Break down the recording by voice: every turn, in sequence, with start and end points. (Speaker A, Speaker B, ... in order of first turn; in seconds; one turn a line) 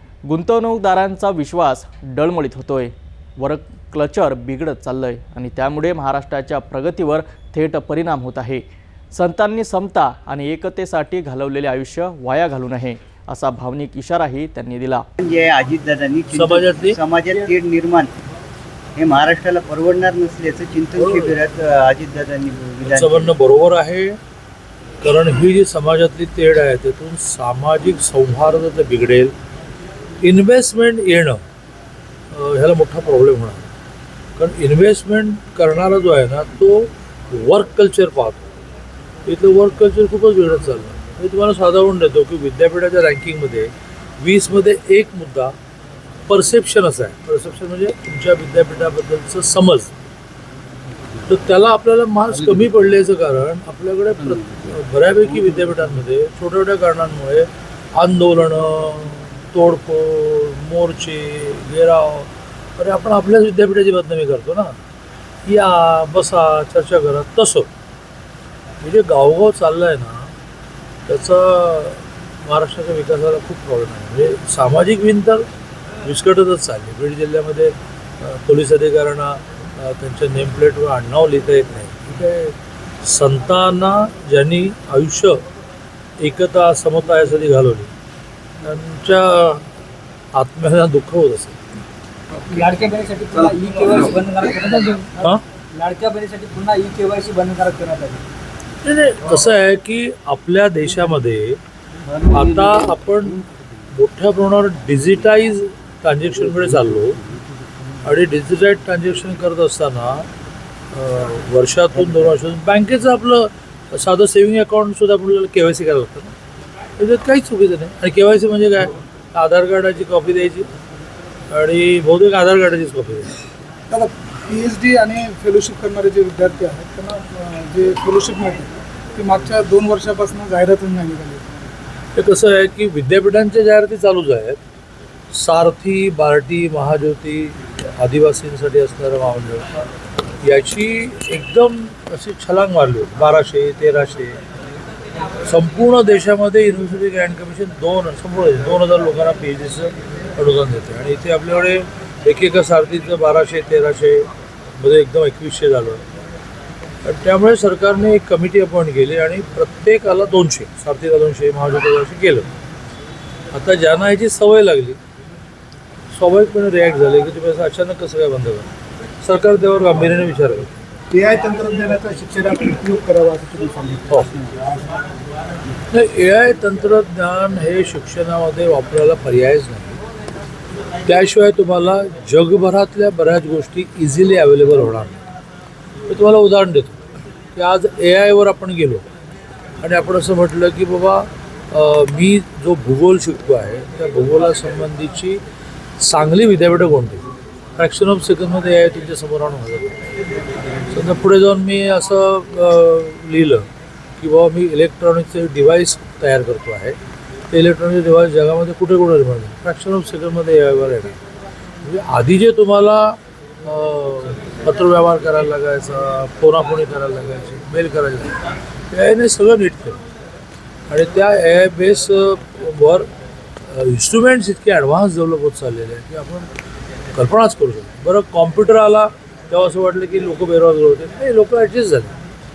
Speaker A: 0.3-15.0
Speaker B: 15.2-18.1
Speaker C: 16.3-17.0
Speaker B: 19.0-23.3
Speaker C: 21.0-21.4
Speaker C: 22.8-24.2
Speaker C: 25.0-29.3
Speaker C: 30.2-31.4
Speaker C: 32.3-33.7
Speaker C: 34.4-38.5
Speaker C: 39.2-45.5
Speaker C: 46.3-49.9
Speaker C: 51.2-64.8
Speaker C: 65.5-67.7
Speaker C: 68.8-70.3
Speaker C: 71.1-75.4
Speaker C: 76.0-85.4
Speaker C: 86.2-87.9
Speaker C: 88.6-89.6
Speaker C: 90.3-91.6
Speaker D: 92.3-98.2
Speaker C: 94.8-95.4
Speaker C: 98.8-101.6
Speaker C: 102.2-103.4
Speaker D: 102.3-102.7
Speaker C: 103.9-107.2
Speaker C: 108.0-110.3
Speaker C: 110.9-116.3
Speaker C: 117.0-120.7
Speaker C: 121.5-123.3
Speaker E: 123.9-131.6
Speaker C: 132.1-134.6
Speaker C: 135.3-139.7
Speaker C: 140.4-144.4
Speaker C: 145.4-156.0
Speaker C: 157.0-162.5
Speaker C: 163.5-165.0
Speaker C: 166.1-168.7
Speaker C: 169.2-170.7
Speaker E: 171.1-174.8
Speaker C: 175.9-180.0
Speaker C: 181.1-185.2
Speaker C: 186.1-187.0
Speaker C: 187.6-189.0
Speaker C: 189.8-195.4
Speaker C: 196.0-197.2
Speaker C: 197.8-199.9
Speaker C: 200.9-203.7
Speaker C: 204.2-206.9
Speaker C: 207.5-211.2
Speaker C: 211.8-220.0
Speaker C: 220.9-223.1
Speaker C: 223.7-226.5
Speaker C: 227.1-232.1